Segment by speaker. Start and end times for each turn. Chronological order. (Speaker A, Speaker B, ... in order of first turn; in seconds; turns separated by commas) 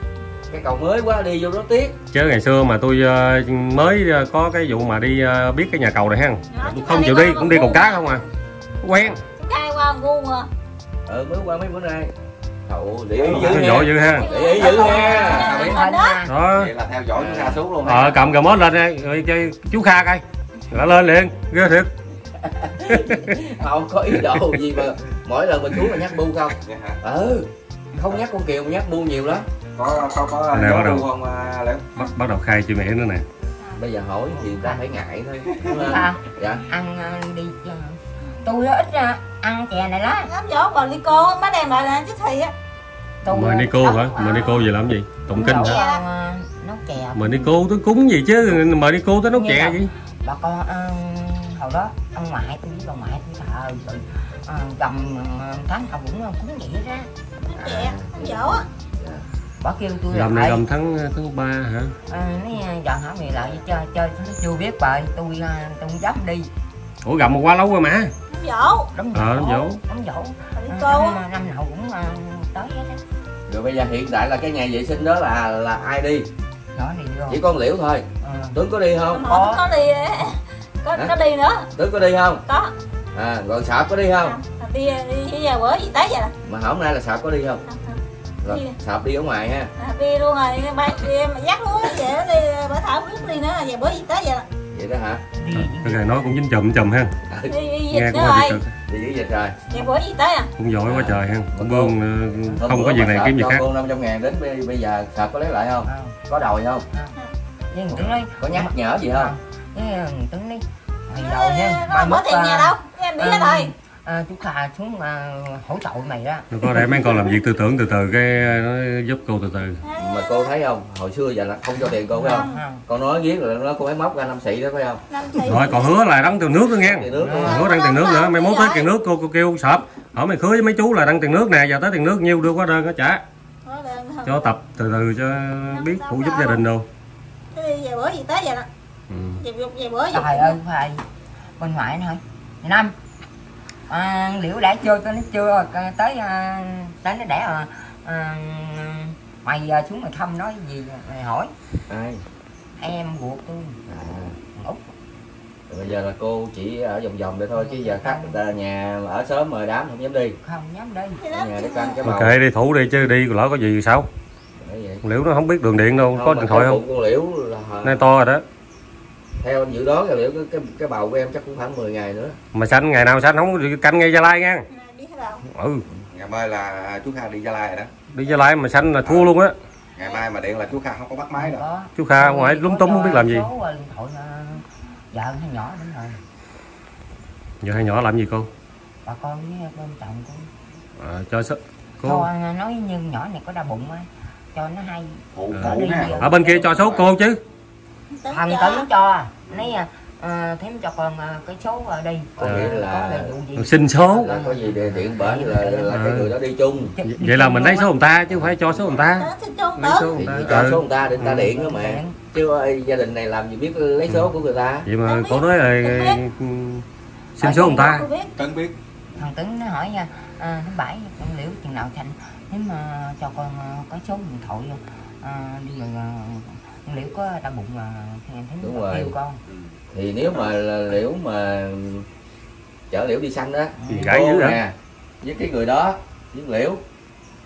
Speaker A: 0.5-2.0, Speaker B: 2.1-8.2, Speaker C: 6.5-8.1, Speaker B: 8.8-9.2, Speaker C: 9.4-10.5, Speaker A: 11.1-12.1, Speaker A: 12.7-15.5, Speaker D: 13.3-13.6, Speaker B: 13.3-14.3, Speaker C: 13.5-16.2, Speaker E: 14.4-16.3, Speaker D: 14.6-15.8, Speaker B: 16.3-16.7, Speaker D: 16.5-18.3, Speaker A: 17.2-17.6, Speaker B: 17.9-21.9, Speaker A: 22.4-27.5, Speaker B: 22.9-23.4, Speaker D: 26.6-27.0, Speaker A: 28.0-29.5, Speaker D: 29.7-31.9, Speaker B: 30.5-31.1, Speaker B: 32.0-33.2, Speaker A: 33.8-36.7, Speaker E: 34.3-34.9, Speaker E: 35.7-40.3, Speaker C: 40.2-42.5, Speaker E: 43.2-44.6, Speaker B: 43.3-45.8, Speaker E: 45.3-47.5, Speaker C: 45.3-46.0, Speaker B: 47.1-49.9, Speaker E: 49.3-57.1, Speaker C: 57.5-58.6, Speaker A: 57.5-59.2, Speaker E: 59.6-60.6, Speaker B: 60.1-61.9, Speaker E: 62.1-66.5, Speaker B: 67.0-68.1, Speaker C: 68.3-68.9, Speaker E: 68.9-73.0, Speaker B: 69.1-69.8, Speaker C: 70.5-71.2, Speaker A: 73.5-76.3, Speaker E: 76.7-77.4, Speaker A: 77.3-79.3, Speaker E: 78.2-78.6, Speaker C: 79.1-81.7, Speaker E: 79.2-79.6, Speaker A: 81.8-82.4, Speaker C: 82.5-82.7, Speaker A: 83.2-84.3, Speaker C: 84.2-86.3, Speaker A: 86.5-87.6, Speaker C: 87.7-88.8, Speaker A: 88.4-89.7, Speaker C: 89.8-94.5, Speaker A: 94.7-95.3, Speaker E: 95.3-96.1, Speaker B: 95.5-97.1, Speaker A: 97.3-97.5, Speaker C: 97.5-98.6, Speaker B: 97.9-98.7, Speaker A: 98.8-99.6, Speaker C: 99.7-100.5, Speaker B: 100.6-103.6, Speaker A: 100.9-102.0, Speaker A: 102.6-106.8, Speaker E: 105.9-106.2, Speaker E: 106.9-107.2, Speaker E: 107.7-116.5, Speaker A: 108.4-109.3, Speaker C: 111.1-113.7, Speaker B: 116.5-119.8, Speaker C: 119.8-120.5, Speaker A: 120.0-125.0, Speaker E: 121.8-122.8, Speaker C: 122.2-122.6, Speaker C: 125.1-125.9, Speaker B: 125.5-133.2, Speaker A: 126.8-127.4, Speaker E: 127.2-127.7, Speaker C: 127.3-128.9, Speaker C: 133.7-134.6, Speaker B: 134.2-136.8, Speaker C: 135.7-136.7, Speaker C: 137.6-138.7, Speaker B: 139.1-139.4, Speaker C: 139.4-140.6, Speaker E: 140.1-141.0, Speaker E: 141.6-142.9, Speaker E: 143.9-151.5, Speaker A: 151.9-152.2, Speaker E: 152.8-153.8, Speaker A: 153.9-154.5, Speaker E: 154.4-154.8, Speaker A: 155.7-160.4, Speaker E: 157.5-158.4, Speaker E: 160.4-161.3, Speaker C: 161.2-162.0, Speaker A: 161.4-162.3, Speaker B: 162.1-164.1, Speaker A: 164.6-165.0, Speaker B: 165.0-166.8, Speaker A: 166.1-168.1, Speaker B: 167.8-168.4, Speaker A: 169.4-172.4, Speaker B: 172.5-174.7, Speaker C: 174.7-175.4, Speaker B: 175.5-175.8, Speaker D: 176.1-177.9, Speaker B: 178.1-179.6, Speaker D: 179.0-179.3, Speaker D: 180.0-181.6, Speaker C: 180.0-180.2, Speaker E: 181.3-186.2, Speaker B: 182.0-183.5, Speaker B: 187.6-188.5, Speaker E: 189.1-190.5, Speaker B: 191.0-192.3, Speaker E: 192.0-197.0, Speaker D: 195.3-197.0, Speaker B: 195.5-197.4, Speaker C: 198.2-198.9, Speaker E: 198.3-206.0, Speaker A: 202.5-203.4, Speaker B: 203.6-204.3, Speaker A: 204.2-206.9, Speaker B: 205.9-206.3, Speaker E: 206.9-207.9, Speaker B: 207.1-210.8, Speaker C: 209.0-210.2, Speaker A: 210.1-214.9, Speaker E: 210.4-212.3, Speaker B: 214.9-216.8, Speaker C: 215.1-216.2, Speaker B: 217.4-218.1, Speaker C: 217.4-218.3, Speaker D: 218.4-218.8, Speaker E: 219.2-229.4, Speaker A: 228.6-229.1, Speaker D: 229.5-229.7, Speaker A: 229.9-232.1, Speaker D: 230.3-230.5, Speaker A: 232.9-236.8, Speaker E: 233.8-234.1, Speaker B: 233.9-234.6